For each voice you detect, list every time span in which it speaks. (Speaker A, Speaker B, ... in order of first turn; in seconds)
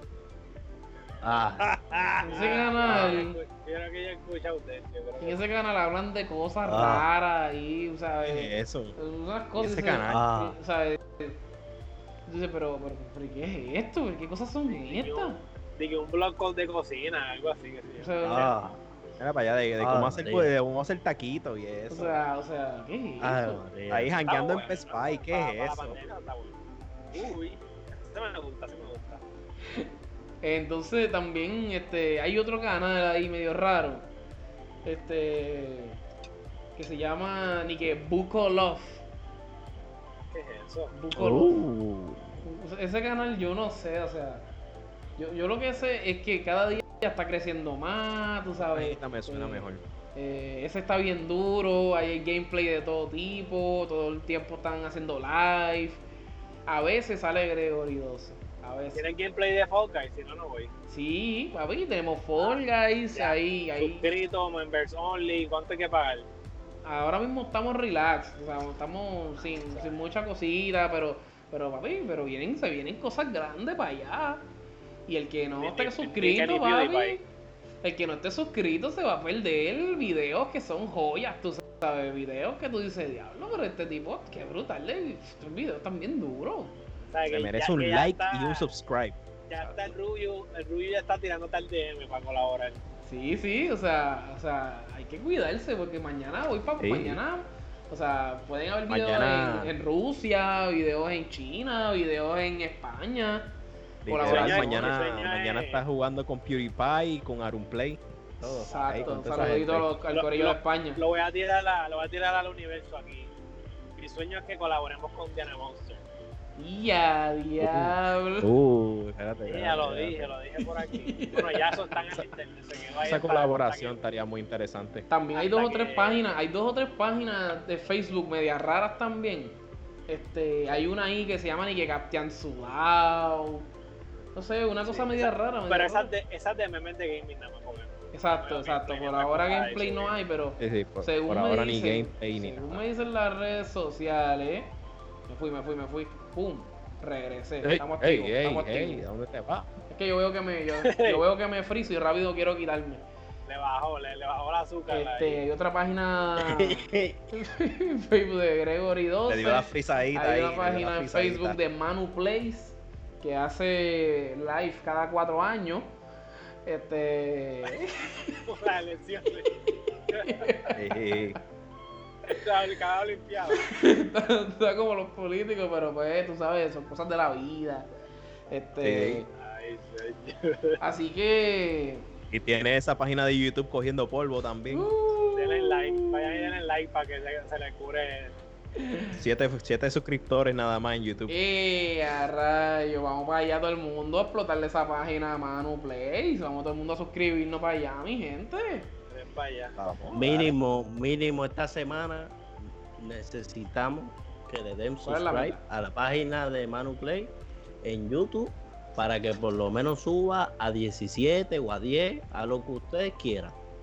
Speaker A: 1.2-3.2, 6.6-7.1, 10.1-10.6, 18.2-18.9, 19.8-20.5, 23.2-24.1, 41.1-42.4, 156.5-157.2, 200.1-213.6
Speaker B: 2.2-3.4, 5.2-11.4, 12.3-15.4, 18.0-18.5, 21.9-23.6, 30.4-34.1, 34.8-36.0, 36.8-39.0, 40.9-41.6, 42.4-44.5, 45.2-56.0, 56.7-59.0, 60.9-64.0, 66.8-74.5, 75.1-77.2, 77.8-86.8, 93.0-103.5, 104.0-104.9, 108.4-111.0, 116.5-118.5, 120.6-121.9, 125.1-133.7, 134.3-136.1, 138.1-144.7, 145.3-149.0, 149.9-153.0, 154.9-165.9, 166.6-168.4, 170.1-171.2, 173.5-177.9, 178.5-179.3, 180.8-182.1, 184.7-186.2, 188.8-189.2, 191.3-198.9, 205.0-205.6
Speaker C: 2.3-5.4, 14.7-18.4, 24.2-26.6, 27.1-29.2, 40.3-40.9, 58.9-60.7, 62.4-66.3, 69.5-70.0, 75.6-77.2, 87.1-88.7, 89.5-92.8, 104.2-105.8, 110.1-113.3, 114.0-116.0, 119.5-124.0, 125.3-126.3, 134.8-140.2, 150.8-151.2, 153.4-155.4, 168.4-169.5, 170.1-170.5, 172.3-173.7, 179.4-180.8, 185.3-188.3, 199.1-199.7
Speaker D: 8.2-9.0, 9.6-10.2, 19.2-22.2, 23.9-26.0, 48.6-49.8, 87.3-89.2, 96.8-97.2, 98.9-99.7, 104.0-109.9, 117.6-120.4, 123.0-125.1, 140.6-142.8, 147.6-149.7, 159.3-161.6, 170.7-171.4, 178.8-179.2, 182.3-184.9, 189.1-191.3, 199.8-200.5